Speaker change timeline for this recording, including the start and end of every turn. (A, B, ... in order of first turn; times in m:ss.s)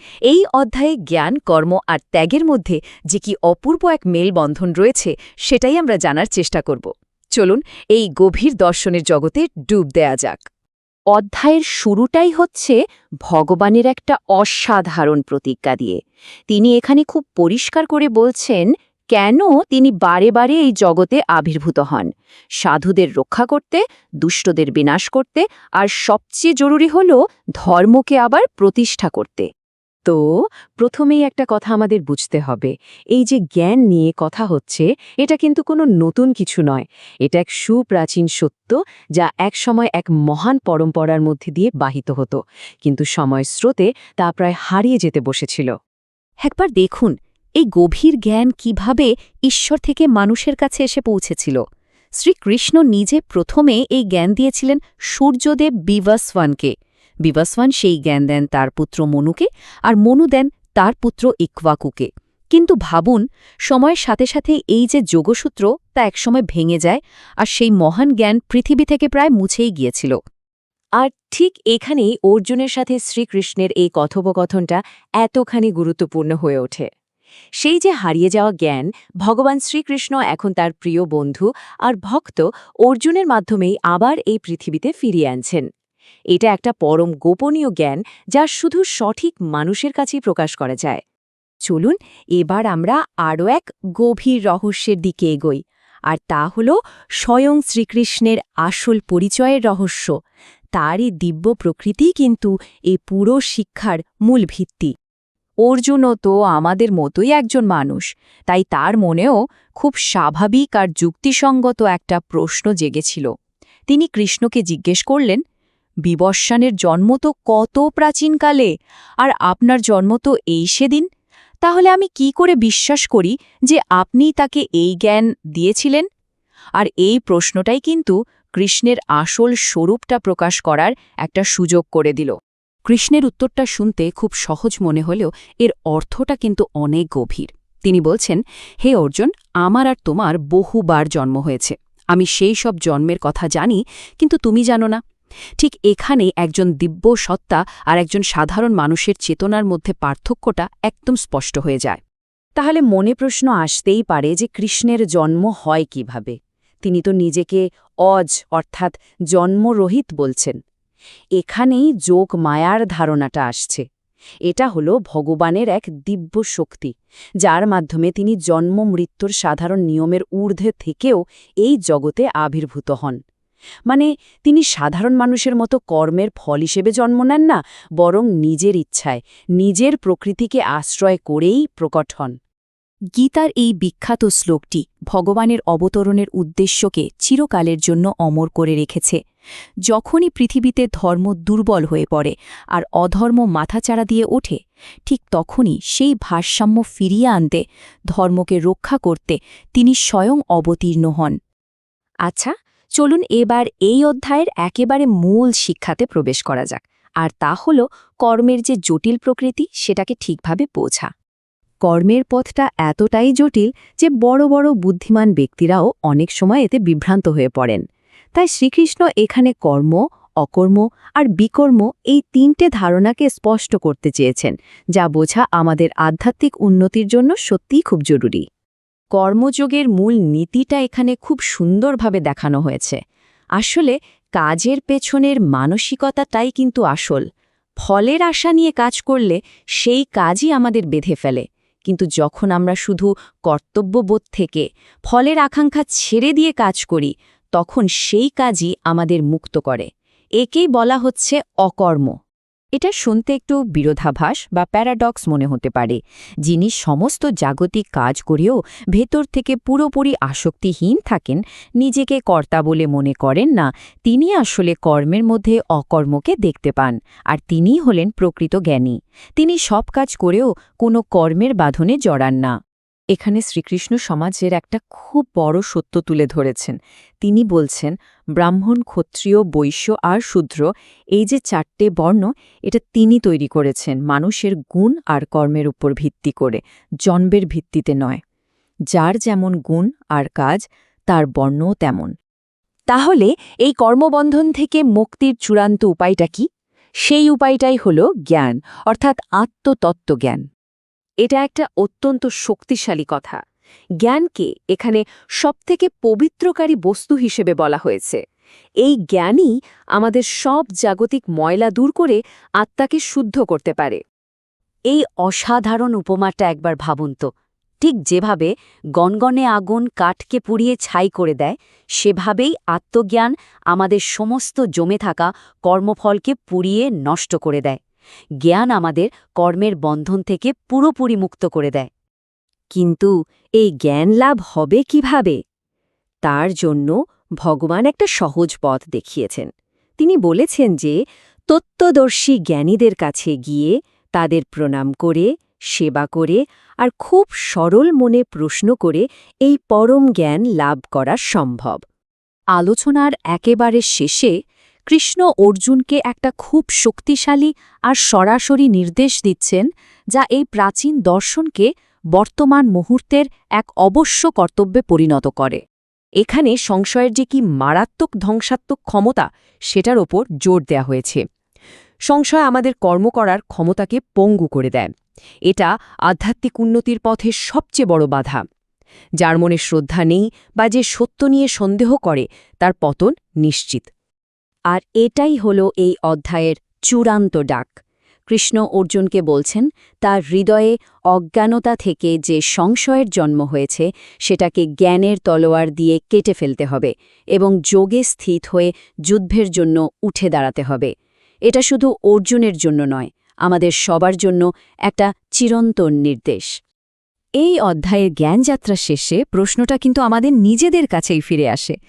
0:00.3-0:10.4 A
0:11.1-0:16.0 A
0:16.5-0:18.6 A
0:19.1-0:22.1 A
0:22.6-0:29.5 A
0:30.8-0:45.7 A
0:46.4-0:51.6 A
0:52.2-0:56.7 A
0:57.2-1:10.2 A
1:11.0-1:16.9 A
1:17.6-1:25.6 A
1:26.3-1:31.0 A
1:31.7-1:40.1 A
1:40.8-1:44.9 A
1:45.6-1:53.3 A
1:53.9-1:55.4 A
1:56.1-2:01.1 A
2:01.6-2:06.1 A
2:06.8-2:12.4 A
2:12.9-2:25.0 A
2:25.6-2:32.0 A
2:32.6-2:40.6 A
2:41.4-2:43.8 A
2:44.5-2:46.9 A
2:47.4-2:53.2 A
2:53.9-3:02.3 A
3:03.2-3:09.2 A
3:09.9-3:21.4 A
3:22.3-3:31.1 A
3:31.8-3:37.8 A
3:38.4-3:48.4 A
3:49.2-3:53.0 A
3:53.6-3:57.2 A
3:57.8-4:09.9 A
4:10.4-4:12.2 A
4:12.8-4:32.5 A
4:33.1-4:48.2 A
4:48.9-4:52.1 A
4:52.9-4:56.5 A
4:57.0-5:00.4 A
5:01.2-5:03.4 A
5:04.0-5:08.2 A
5:08.8-5:14.0 A
5:14.9-5:17.3 A
5:17.8-5:27.8 A
5:28.4-5:31.9 A
5:32.8-5:35.4 A
5:36.2-5:41.0 A
5:41.5-5:51.8 A
5:52.6-5:54.3 A
5:54.9-6:05.6 A
6:06.2-6:11.2 A
6:12.1-6:14.9 A
6:15.5-6:18.4 A
6:19.2-6:23.9 A
6:24.7-6:27.8 A
6:28.3-6:40.9 A
6:41.5-6:46.5 A
6:47.4-6:51.8 A